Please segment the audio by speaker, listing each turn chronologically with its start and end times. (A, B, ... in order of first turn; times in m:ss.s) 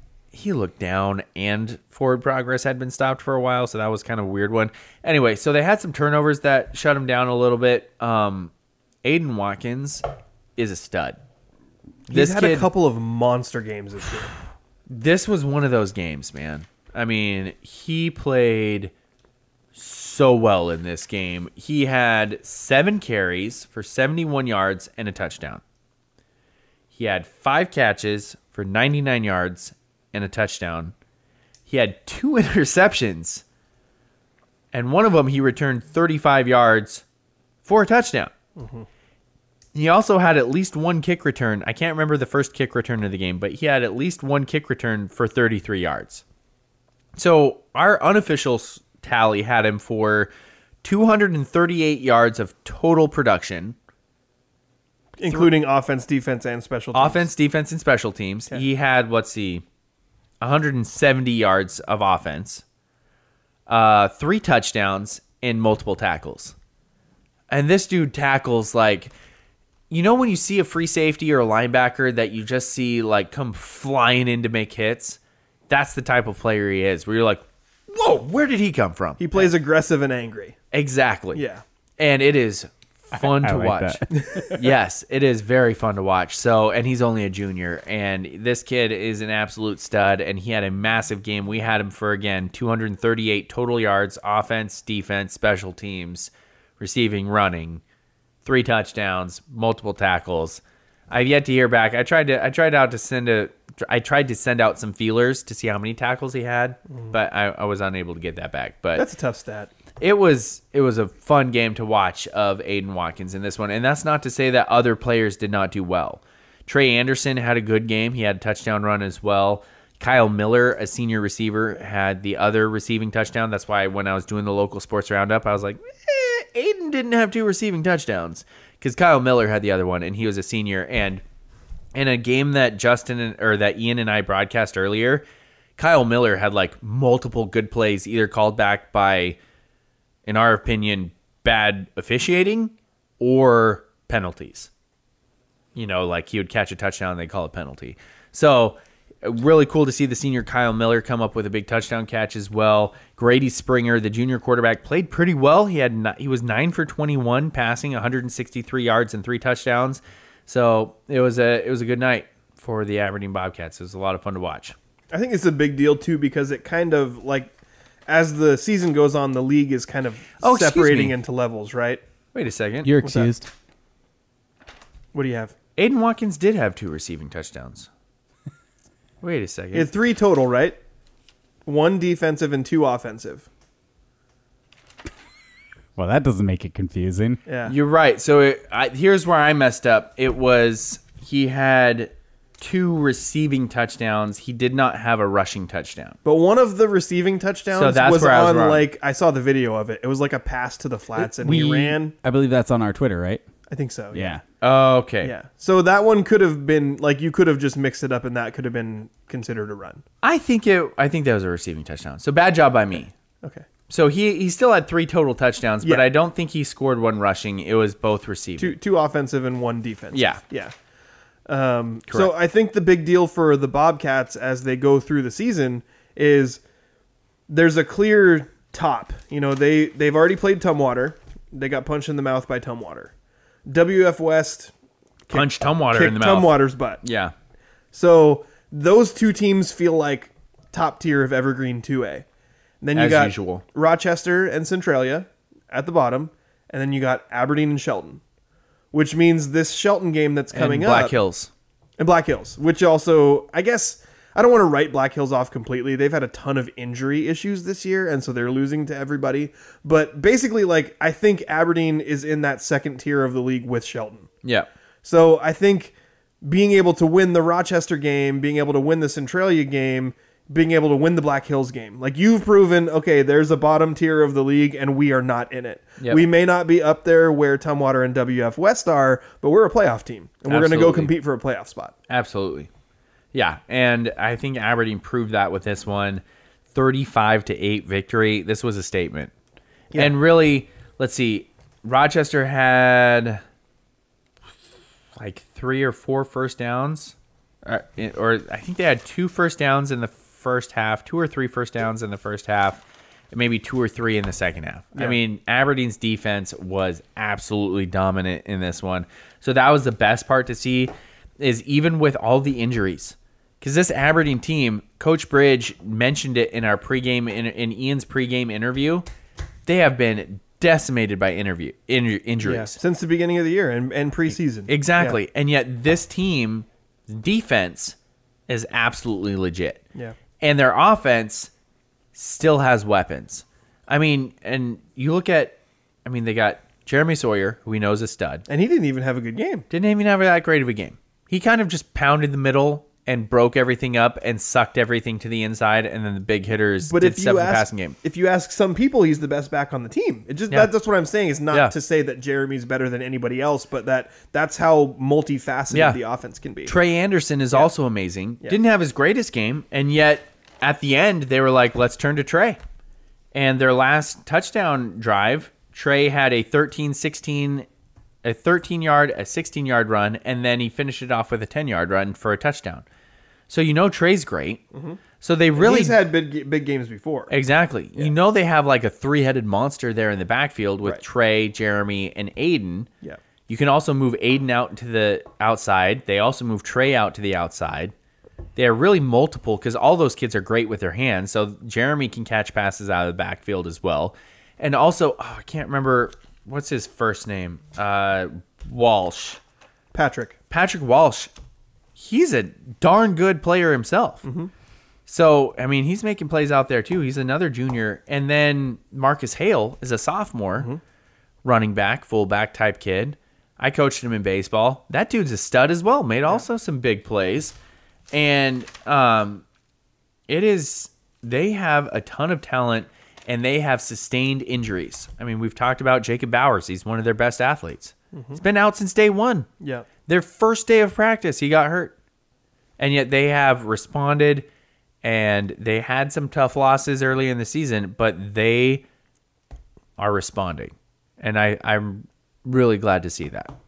0:00.3-0:08.5 A
0:09.0-0:10.0 A
0:10.6-0:11.2 A
0:12.1-0:14.3 B
0:12.1-0:12.7 A
0:14.9-0:18.9 A
0:19.7-0:25.6 A
0:26.9-0:30.9 A
0:31.7-0:33.4 A
0:34.7-0:37.0 A
0:37.6-0:38.3 A
0:38.6-0:38.9 B
0:39.7-0:46.2 A
0:47.2-0:50.3 A
0:50.8-0:53.8 A
0:55.2-0:57.3 B
0:55.2-0:55.5 A
0:56.9-0:59.6 A
1:00.4-1:02.6 A
1:03.7-1:06.5 A
1:07.5-1:09.1 A
1:09.9-1:19.5 A
1:19.2-1:20.6 B
1:20.7-1:21.4 A
1:21.3-1:21.6 B
1:22.0-1:37.8 A
1:23.1-1:24.5 C
1:24.2-1:24.5 B
1:38.4-1:49.1 A
1:48.9-1:49.7 B
1:50.0-2:11.2 A
2:11.9-2:15.2 A
2:15.8-2:19.4 A
2:20.2-2:24.7 A
2:25.7-2:44.7 A
2:45.1-2:47.5 B
2:48.1-2:52.0 B
2:50.4-2:51.1 A
2:52.3-2:52.9 A
2:52.8-2:53.5 C
2:53.0-2:53.3 B
2:55.1-2:55.5 B
2:55.8-2:57.9 A
2:59.2-2:59.9 A
2:59.7-3:00.8 B
3:01.6-3:03.4 B
3:06.0-3:07.4 C
3:07.4-3:07.7 B
3:07.6-3:16.2 A
3:16.2-3:22.1 B
3:17.7-3:18.8 A
3:21.2-3:23.4 C
3:23.7-3:24.4 B
3:24.1-3:24.4 C
3:24.6-3:25.3 A
3:25.2-3:30.0 B
3:30.2-3:33.1 A
3:33.9-3:38.8 A
3:38.6-3:40.7 B
3:40.1-3:40.4 A
3:41.5-3:46.6 B
3:47.5-3:53.1 B
3:53.7-3:54.7 B
3:55.3-3:57.0 B
3:55.3-3:57.3 A
3:57.9-4:02.2 B
4:02.8-4:08.2 B
4:02.9-4:03.6 A
4:08.9-4:11.1 B
4:10.5-4:11.5 A
4:12.0-4:24.3 B
4:25.0-4:41.9 B
4:36.0-4:36.2 A
4:40.4-4:41.1 A
4:42.1-4:42.7 A
4:43.3-4:49.3 A
4:49.9-4:53.4 A
4:55.2-5:19.0 A
5:19.6-5:22.8 A
5:22.4-5:25.2 B
5:24.7-5:28.0 A
5:28.5-5:29.8 A
5:30.4-5:31.5 A
5:32.1-5:38.4 A
5:38.5-5:39.7 B
5:39.7-5:48.0 A
5:46.8-5:56.8 B
5:55.7-5:56.0 A
5:56.6-6:02.6 A
6:03.3-6:07.6 A
6:08.2-6:12.8 A
6:13.5-6:14.6 A
6:14.7-6:15.0 B
6:15.2-6:16.0 A
6:15.6-6:17.3 B
6:17.3-6:22.9 A
6:23.5-6:27.9 A
6:28.6-6:39.4 A
6:39.9-6:40.4 B
6:40.5-6:41.3 A
6:42.0-6:44.2 A
6:44.2-6:44.5 B
6:45.1-6:50.7 A
6:51.4-6:57.6 A
6:58.1-6:59.4 A
7:00.3-7:09.5 A
7:08.1-7:08.4 B
7:09.6-7:09.9 B
7:10.0-7:11.9 A
7:12.8-7:14.4 A
7:15.0-7:18.8 A
7:20.0-7:23.5 A